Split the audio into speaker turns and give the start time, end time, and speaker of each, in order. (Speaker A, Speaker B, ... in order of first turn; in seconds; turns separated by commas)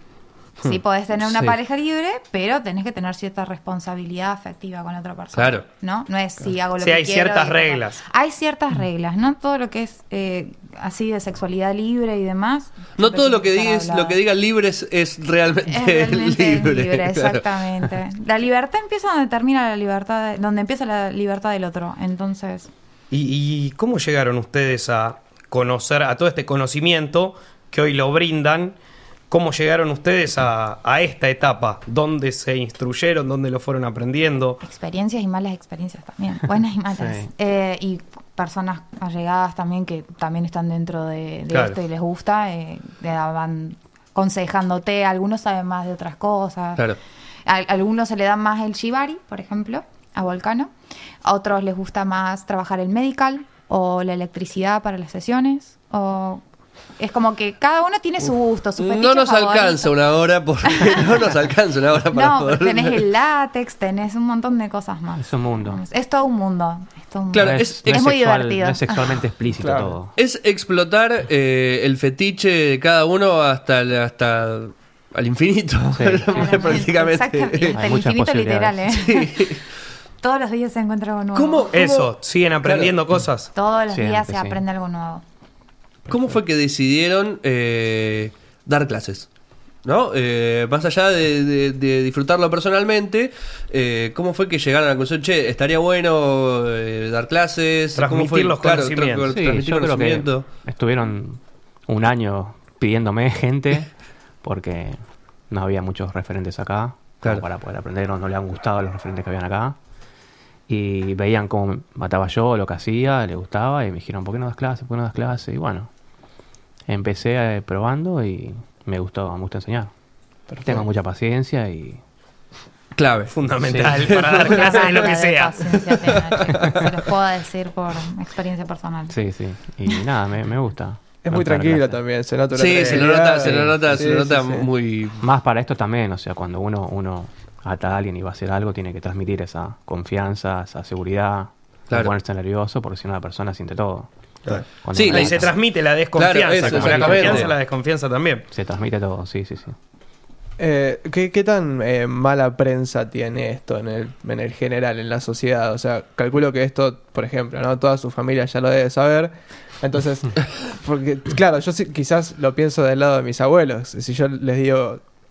Speaker A: 0.6-14.2, Speaker B: 1.2-1.5, Speaker B: 5.3-5.7, Speaker C: 6.8-8.0, Speaker B: 13.0-17.9, Speaker A: 15.7-22.7, Speaker C: 23.1-28.8, Speaker C: 29.3-34.6, Speaker A: 34.6-46.8, Speaker D: 37.0-37.3, Speaker B: 41.5-41.8, Speaker A: 47.5-50.7, Speaker A: 51.2-56.4, Speaker A: 57.0-59.9, Speaker B: 58.8-63.1, Speaker A: 60.7-61.1, Speaker A: 62.1-69.1, Speaker D: 65.2-65.8, Speaker B: 67.3-67.9, Speaker D: 67.4-70.1, Speaker E: 69.6-70.0, Speaker B: 70.2-77.8, Speaker D: 75.9-76.7, Speaker A: 76.3-79.5, Speaker D: 77.8-78.9, Speaker B: 79.0-79.6, Speaker A: 80.2-81.8, Speaker B: 81.3-83.0, Speaker C: 81.7-83.5, Speaker A: 83.5-85.2, Speaker D: 83.9-84.6, Speaker B: 86.1-89.3, Speaker B: 89.8-100.5, Speaker C: 98.0-99.3, Speaker D: 99.3-103.9, Speaker D: 104.4-105.0, Speaker D: 105.5-109.8, Speaker D: 110.7-115.9, Speaker D: 116.9-119.9, Speaker E: 120.5-120.8, Speaker D: 120.6-122.0, Speaker B: 123.0-123.3, Speaker C: 123.3-126.8, Speaker D: 123.6-124.2, Speaker B: 123.9-125.1, Speaker A: 124.4-129.2, Speaker D: 129.1-132.0, Speaker E: 131.2-134.7, Speaker B: 132.5-135.2, Speaker D: 133.4-133.8, Speaker D: 135.2-144.1, Speaker C: 144.5-148.5, Speaker D: 144.7-145.5, Speaker B: 144.9-145.5, Speaker B: 146.1-147.5, Speaker D: 146.7-147.6, Speaker D: 148.5-149.8, Speaker E: 150.6-165.0